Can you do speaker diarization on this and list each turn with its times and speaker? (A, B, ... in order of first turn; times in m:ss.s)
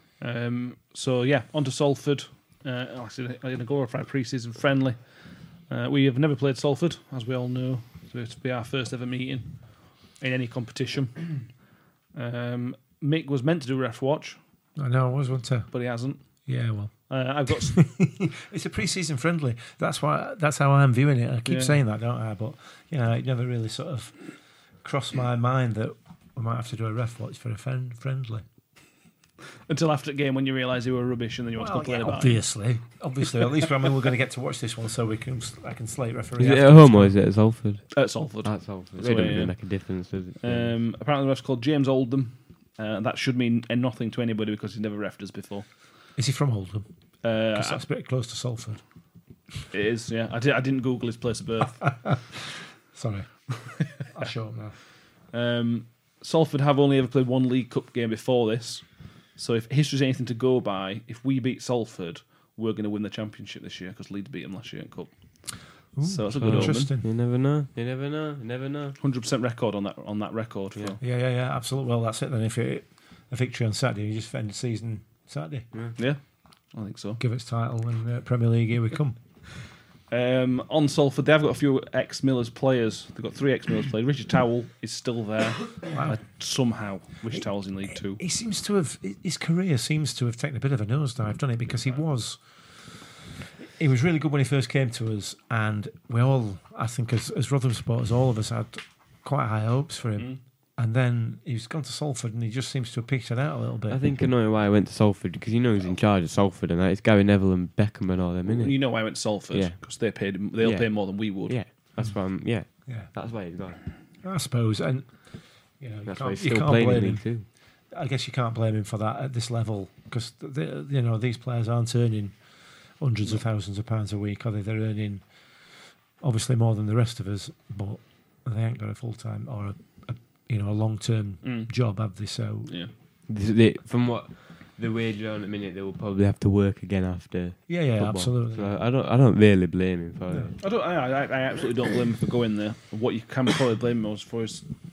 0:00.2-0:11.6 A
0:12.1-0:14.4 A
0:14.8-0:15.8 B
0:15.7-0:16.5 A
0:16.4-0:28.4 B
0:17.1-0:17.8 A
0:21.4-0:21.8 A
0:29.7-0:32.4 A
0:31.6-0:37.2 B
0:36.4-0:40.7 C
0:37.9-0:39.6 A
0:40.4-0:45.7 A
0:46.2-0:46.9 B
0:47.2-0:47.8 A
0:47.5-0:48.8 B
0:49.7-0:51.9 A
0:52.0-0:54.8 B
0:55.3-1:06.9 A
1:05.9-1:07.1 B
1:06.4-1:09.0 C
1:09.0-1:11.0 A
1:11.0-1:15.7 B
1:16.0-1:17.2 A
1:17.2-1:19.2 B
1:20.1-1:28.2 A
1:25.9-1:26.2 B
1:28.0-1:44.0 B
1:43.9-1:53.8 C
1:48.4-1:51.6 A
1:52.8-1:53.1 B
1:54.2-2:12.7 B
1:56.1-1:57.5 C
2:11.4-2:11.7 A
2:13.3-2:20.6 C
2:17.7-2:18.7 B
2:20.6-2:24.7 A